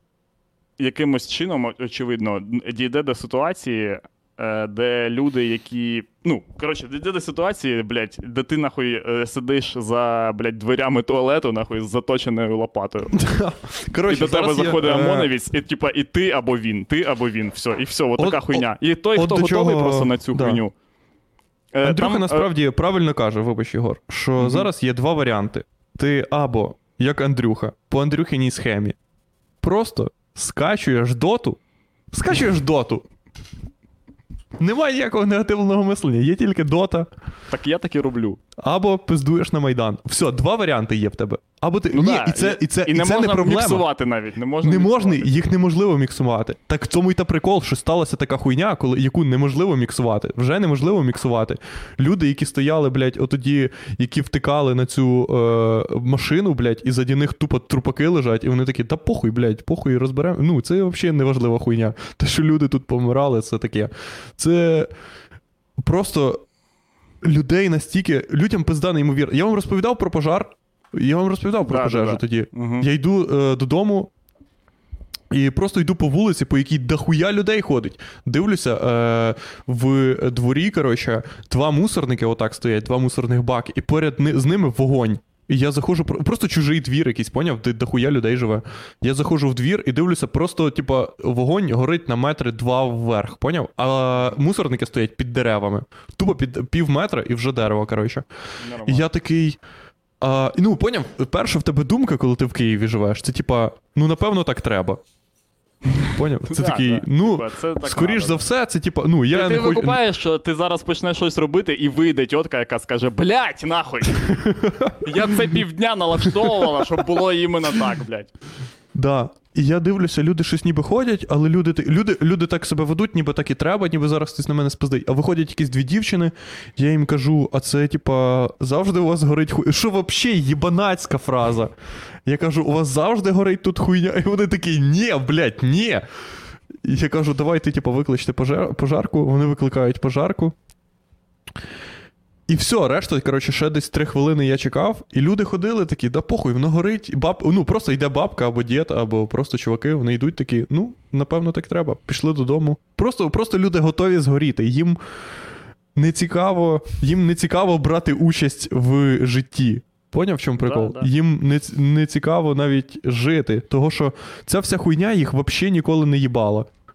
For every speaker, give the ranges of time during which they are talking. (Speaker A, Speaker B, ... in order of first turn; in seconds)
Speaker A: 0.8-13.2, 14.1-20.7, 21.7-22.5, 24.4-24.7, 37.5-38.4, 41.9-45.5, 71.7-72.9, 98.6-99.1, 105.9-108.5, 109.3-114.4, 115.0-118.3, 160.6-161.1
Speaker B: 13.1-15.3, 18.2-20.6, 21.8-29.0, 29.6-31.6, 32.1-33.0, 34.6-37.1, 38.6-43.8, 44.6-64.9, 65.8-66.4, 67.2-74.1, 75.3-99.6, 100.2-105.0, 106.0-110.0, 114.2-115.3, 116.3-116.8, 118.9-131.7, 132.2-136.1, 136.8-140.5, 142.5-155.0, 155.9-166.7